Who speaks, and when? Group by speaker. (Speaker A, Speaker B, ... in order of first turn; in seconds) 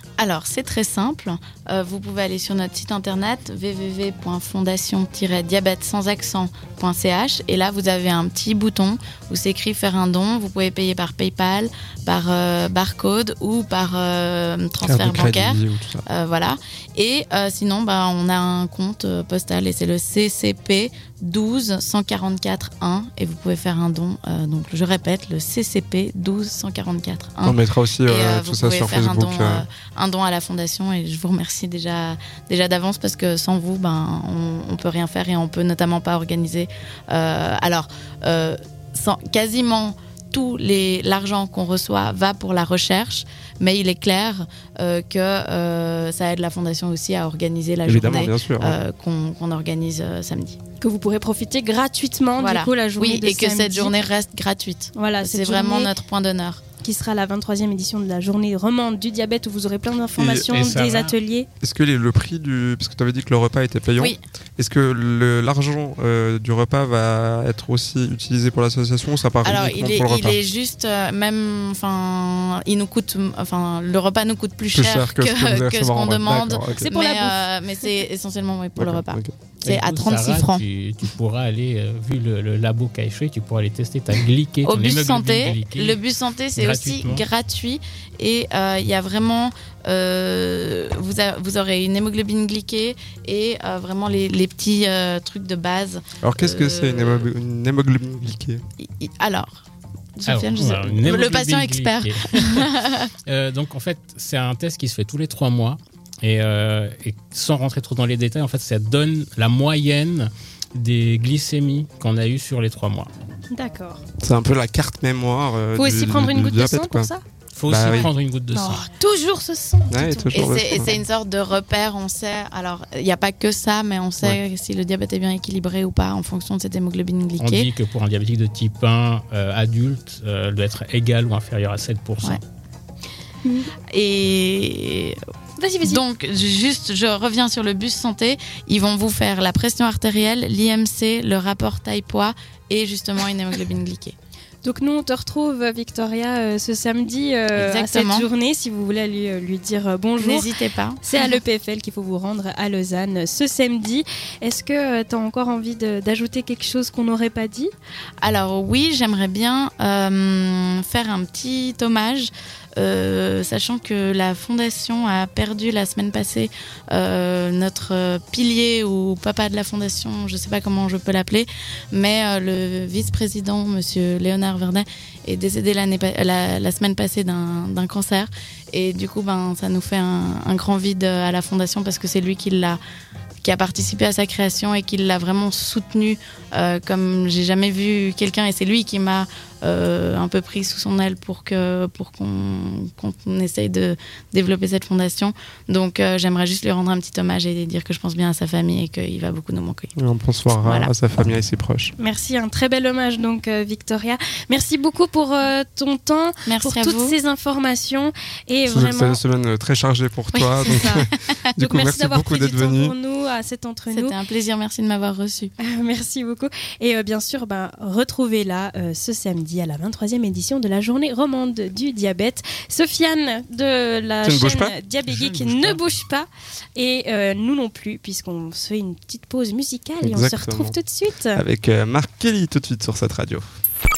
Speaker A: 0.2-50.6, 52.4-56.6, 69.4-80.7, 84.6-97.3, 98.8-99.6, 100.2-103.1, 120.3-127.7, 133.9-135.2, 135.8-144.2, 147.5-148.3, 150.2-151.4, 158.2-182.8, 183.4-199.9, 200.5-200.9, 206.5-207.2, 210.3-211.6, 213.9-215.5
Speaker B: 14.8-16.1, 27.4-29.6, 47.9-48.8, 60.2-60.5, 61.6-70.4, 74.7-76.9, 78.8-79.3, 96.2-98.6, 114.2-117.1, 117.7-118.1, 119.9-120.9, 200.0-201.9, 208.7-212.9, 224.2-224.8, 230.0-230.8, 231.3-233.6
Speaker C: 50.8-54.0, 54.9-55.9, 56.8-61.5, 76.8-77.5, 113.5-114.0, 115.8-117.2, 118.0-120.9, 135.6-136.1, 144.6-150.5, 151.0-157.7, 202.0-209.2, 210.7-211.1, 211.6-214.2, 215.6-231.4
Speaker D: 60.5-61.1, 79.6-86.0, 86.6-87.3, 100.3-102.7, 103.3-113.1, 117.5-118.9, 127.4-132.4, 225.0-226.0